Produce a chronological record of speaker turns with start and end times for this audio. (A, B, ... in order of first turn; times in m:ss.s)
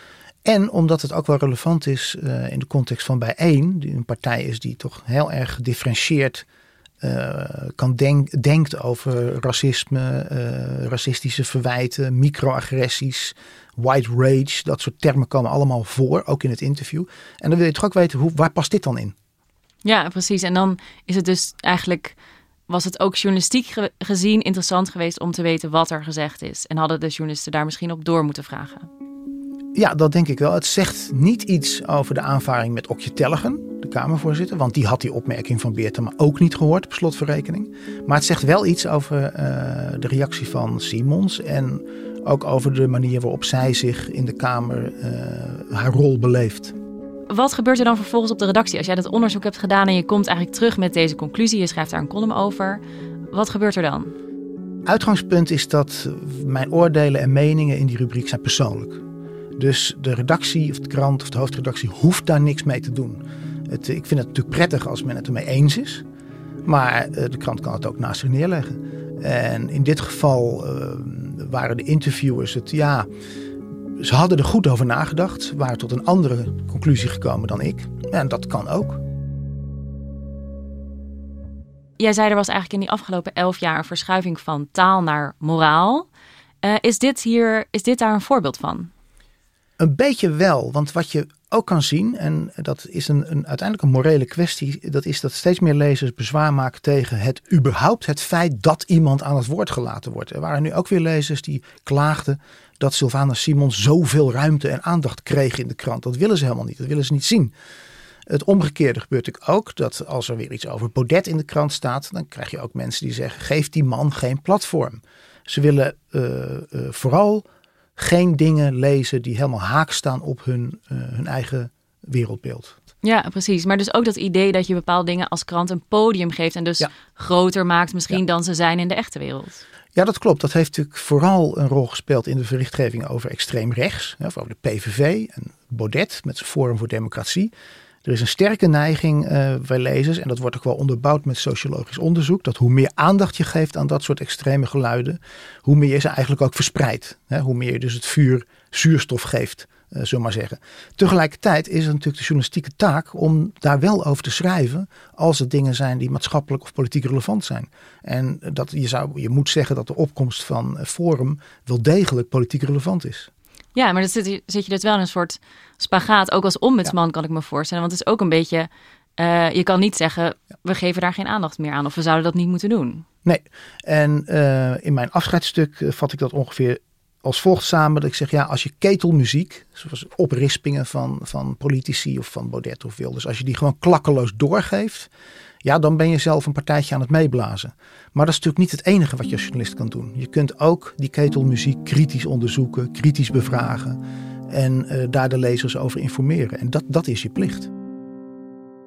0:00.4-0:06.4 A
0:07.0-0:19.1 A
0:19.8-0:22.2 B
0:22.7-0:28.9 B
0:29.7-0:46.7 A
0:47.3-0:54.1 B
0:54.8-0:59.0 A
0:59.6-1:06.0 A
1:06.6-1:13.1 A
1:14.0-1:19.0 A
1:22.0-1:26.1 B
1:26.6-1:28.9 B
1:29.8-1:47.5 A
1:48.3-1:57.4 A
1:58.0-2:02.8 A
2:03.0-2:09.6 B
2:09.9-2:17.5 A
2:18.0-2:43.3 A
2:43.7-2:53.0 B
2:53.2-3:05.1 A
3:05.6-3:17.7 A